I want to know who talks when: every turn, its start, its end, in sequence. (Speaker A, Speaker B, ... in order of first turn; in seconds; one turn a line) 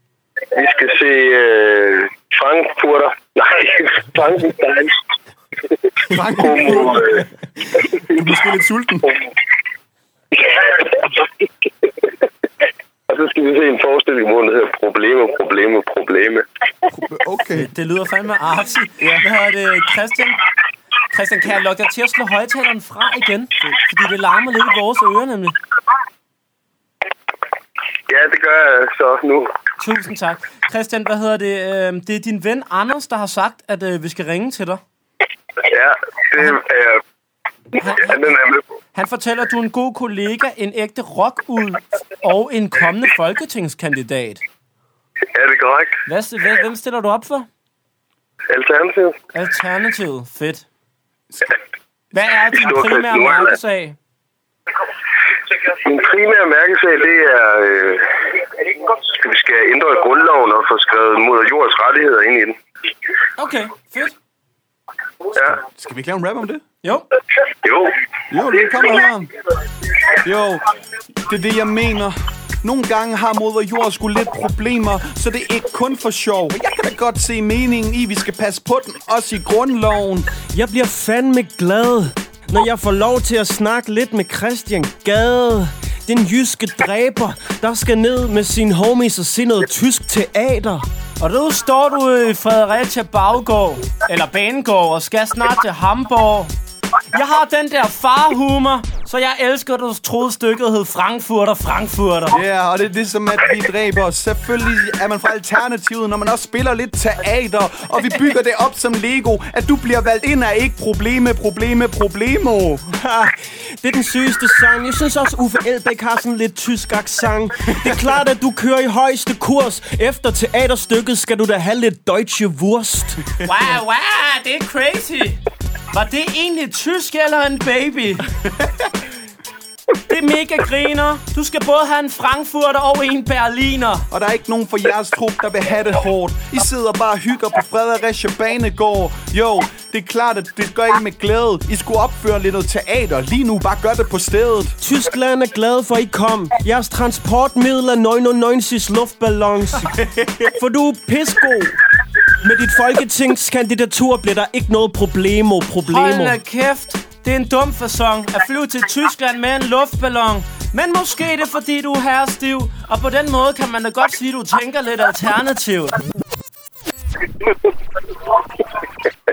Speaker A: 0.5-5.0
Speaker B: 6.1-7.2
Speaker A: 6.4-7.2
Speaker B: 8.1-9.1
Speaker A: 10.4-11.0
Speaker A: 13.1-16.4
Speaker B: 16.9-17.7
Speaker C: 17.6-20.4
Speaker C: 21.1-25.5
Speaker A: 28.1-29.5
Speaker C: 29.8-34.8
Speaker A: 35.6-37.0
Speaker C: 37.8-38.2
Speaker A: 38.0-38.6
Speaker C: 38.9-44.4
Speaker A: 45.3-46.0
Speaker C: 46.0-47.5
Speaker A: 48.5-49.1
Speaker C: 49.3-50.6
Speaker C: 52.1-54.0
Speaker A: 52.5-53.5
Speaker A: 55.8-58.1
Speaker A: 59.0-62.5
Speaker C: 63.4-64.1
Speaker B: 65.6-66.6
Speaker A: 67.6-67.9
Speaker B: 68.3-69.3
Speaker B: 70.2-70.6
Speaker B: 71.2-80.4
Speaker D: 80.4-90.8
Speaker C: 91.2-96.5
Speaker C: 97.1-102.4
Speaker B: 102.3-112.8
Speaker D: 112.9-123.2
Speaker C: 123.4-125.4
Speaker C: 125.9-128.2
Speaker C: 130.1-134.1
Speaker B: 134.1-144.8
Speaker D: 144.8-150.0
Speaker B: 150.1-150.5
Speaker D: 150.5-151.8
Speaker D: 152.4-156.4
Speaker C: 155.8-166.0